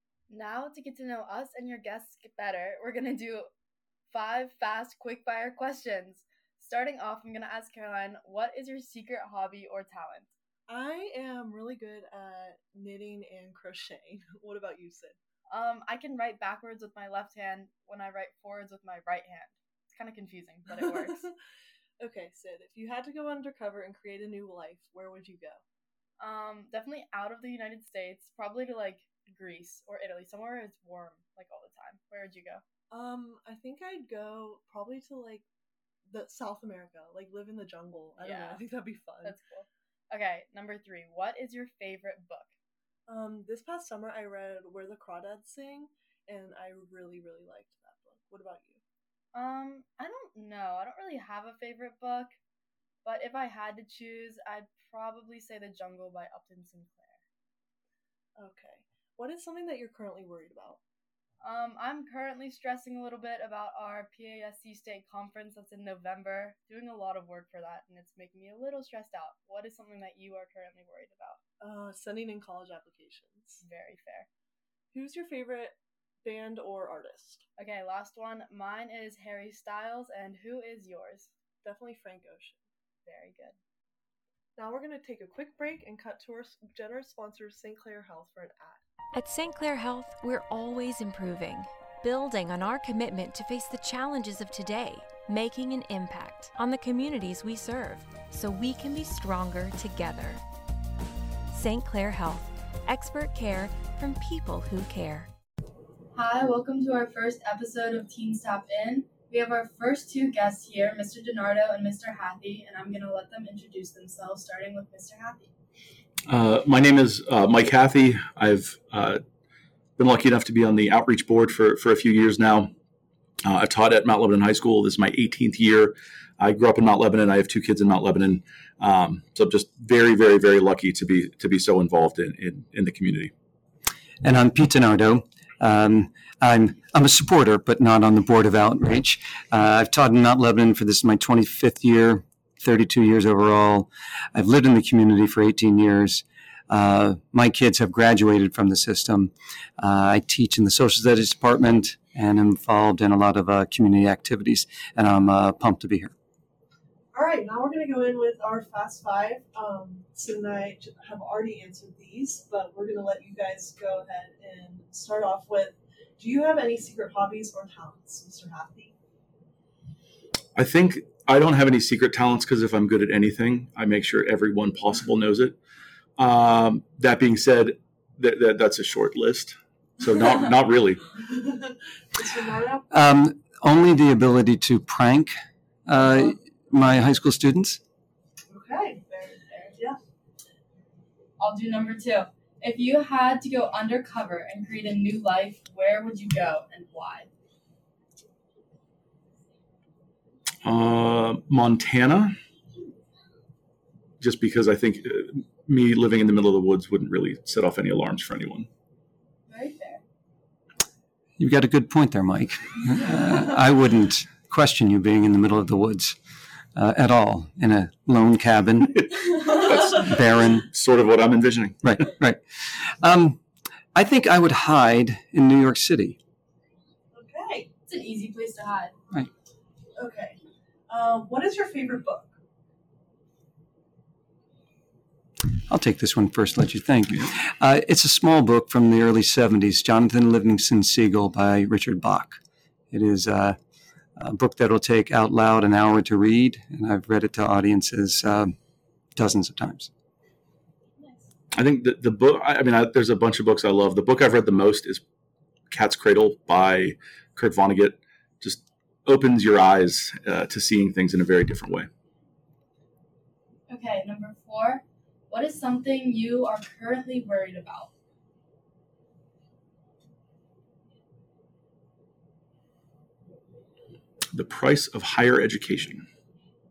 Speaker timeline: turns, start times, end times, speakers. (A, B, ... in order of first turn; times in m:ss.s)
0:00.3-0:03.5 A
0:04.1-0:10.3 A
0:10.7-0:15.2 B
0:15.5-0:21.3 A
0:22.0-0:25.6 B
0:26.2-0:32.6 A
0:32.9-0:35.4 B
0:36.1-0:39.4 B
0:38.2-0:38.6 A
0:39.2-0:42.5 A
0:43.1-0:48.8 B
0:49.3-0:52.3 A
0:53.0-0:57.2 A
0:58.4-1:00.8 B
1:01.4-1:11.4 A
1:11.6-1:13.6 B
1:13.6-1:14.3 A
1:14.9-1:17.4 B
1:17.6-1:21.3 A
1:21.6-1:22.6 B
1:23.0-1:23.6 A
1:24.6-1:28.8 B
1:29.1-1:40.4 C
1:41.5-1:45.3 C
1:46.1-1:55.5 A
1:56.3-1:59.2 D
2:00.0-2:02.7 D
2:03.4-2:13.3 D
2:14.2-2:36.1 E
2:37.1-2:48.9 B
2:50.6-2:55.6 D
2:56.2-3:01.0 D
3:01.2-3:02.8 B
3:02.9-3:05.3 E
3:05.8-3:07.8 E
3:06.0-3:06.3 B
3:08.5-3:09.1 B
3:09.1-3:09.7 A
3:11.4-3:17.3 A
3:20.6-3:22.4 D
3:24.2-3:28.7 D
3:29.5-3:30.0 A
3:31.4-3:36.2 E
3:36.7-3:40.7 E
3:39.6-3:40.2 D
3:40.7-3:41.8 D
3:41.8-3:43.4 E
3:43.9-3:46.2 E
3:47.1-3:47.7 B
3:47.9-3:48.9 A
3:50.0-3:50.4 B
3:50.9-3:52.3 B
3:55.7-4:02.4 E
4:02.9-4:03.6 E
4:04.2-4:08.5 E
4:09.2-4:09.9 E
4:11.0-4:11.2 A
4:11.5-4:15.0 D
4:15.7-4:21.9 D
4:23.7-4:27.9 A
4:34.3-4:36.0 D